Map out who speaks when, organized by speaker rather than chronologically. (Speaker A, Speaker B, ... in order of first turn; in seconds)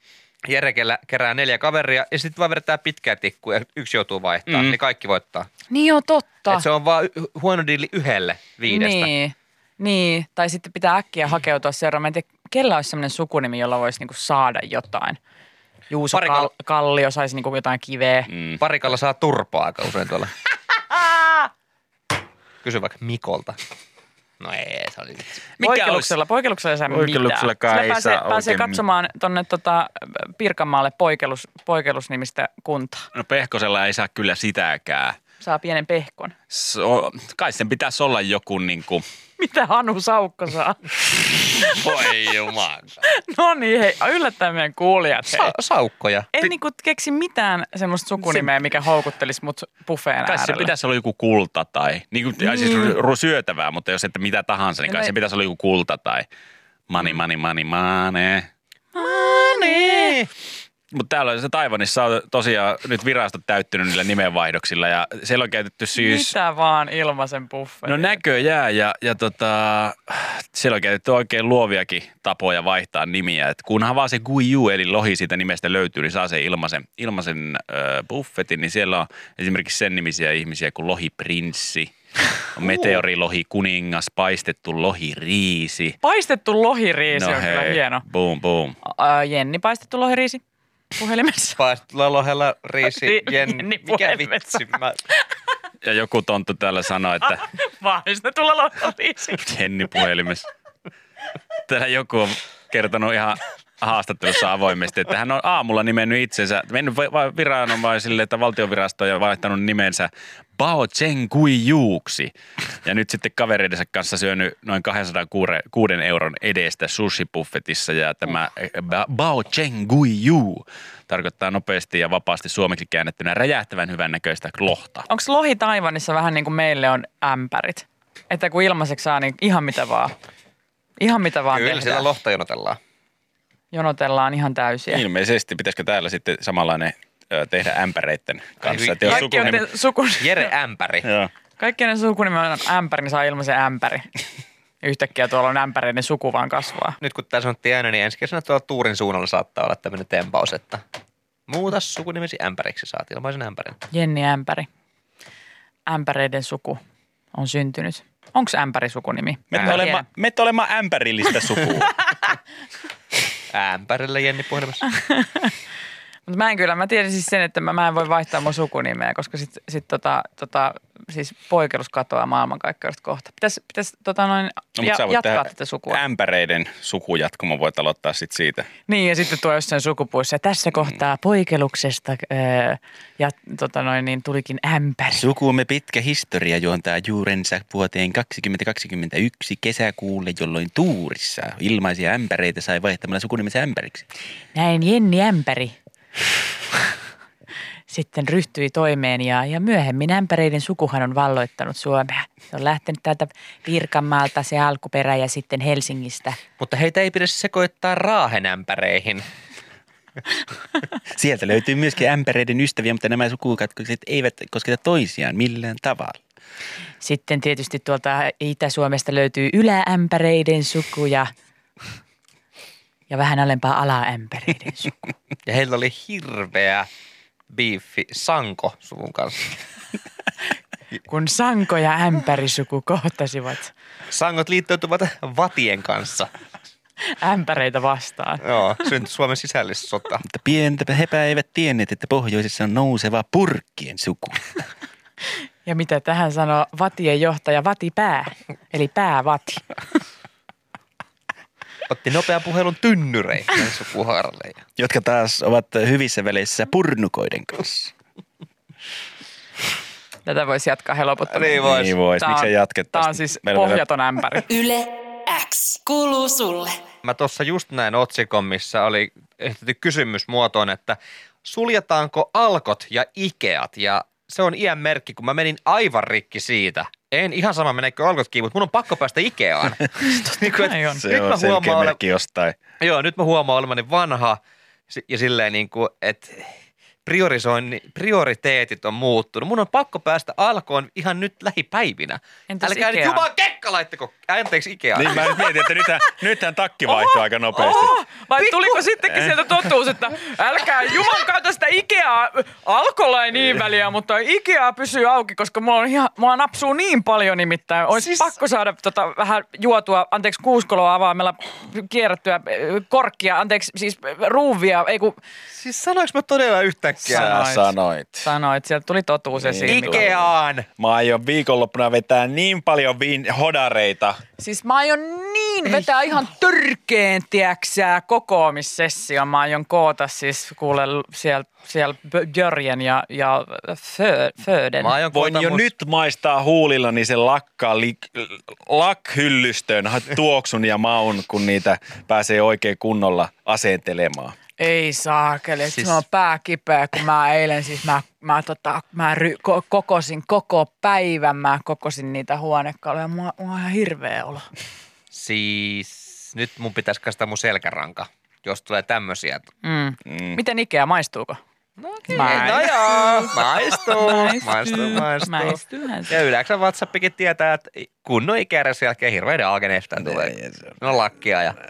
Speaker A: 0.5-5.5, 6.5-9.1, 16.1-16.5, 18.6-20.3, 22.6-23.6, 24.4-25.4, 41.8-42.6, 45.3-46.5, 59.0-60.3, 82.7-83.0, 91.6-95.0, 131.5-132.8, 138.6-139.6, 140.2-141.1, 147.0-150.8, 151.5-153.8, 159.5-159.8, 163.5-164.8, 206.6-209.3, 225.5-226.9, 227.5-229.5, 234.1-236.3, 238.4-240.2, 251.9-254.6, 261.3-261.9, 267.0-282.0, 282.8-286.5, 287.1-295.5, 307.9-308.3, 315.5-317.3, 319.7-320.7, 334.8-335.7, 345.6-346.0, 355.1-359.5, 361.8-371.6
Speaker B: 4.5-4.8, 18.3-18.6, 25.6-26.1, 26.9-28.8, 33.1-35.2, 36.5-39.0, 41.6-42.8, 50.3-56.3, 56.9-58.5, 60.9-66.3, 67.9-81.9, 82.5-86.0, 87.1-88.8, 95.8-97.5, 99.4-100.5, 101.7-112.3, 112.8-125.0, 134.9-139.7, 141.0-141.3, 159.5-162.0, 174.8-178.7, 185.1-194.1, 211.1-216.2, 240.3-244.6, 254.8-257.9, 261.6-263.8, 281.0-282.6, 294.9-298.0, 317.1-318.3, 319.4-324.2, 335.1-344.4, 360.1-360.4, 370.0-370.7
Speaker C: 5.7-6.7, 8.7-15.2, 15.9-18.3, 25.6-33.1, 35.4-36.4, 39.4-40.9, 43.0-45.5, 46.3-50.7, 52.4-53.0, 54.9-55.1, 59.0-60.2, 66.0-68.2, 86.0-88.0, 88.8-90.4, 91.0-91.6, 92.9-94.7, 97.2-99.5, 125.1-130.2, 131.0-132.1, 133.7-135.0, 139.1-140.5, 141.6-144.1, 144.8-147.0, 153.9-154.7, 155.9-156.8, 157.3-160.1, 164.9-165.5, 166.3-176.0, 178.9-185.2, 194.5-195.8, 197.9-206.4, 217.0-221.3, 223.1-224.9, 231.1-233.7, 237.1-238.5, 245.7-249.7, 260.2-264.5, 280.0-281.1, 292.5-293.3, 296.9-315.2, 317.0-320.1, 324.4-335.0, 344.6-354.5, 359.6-361.4, 362.1-366.2
Speaker D: 264.5-266.8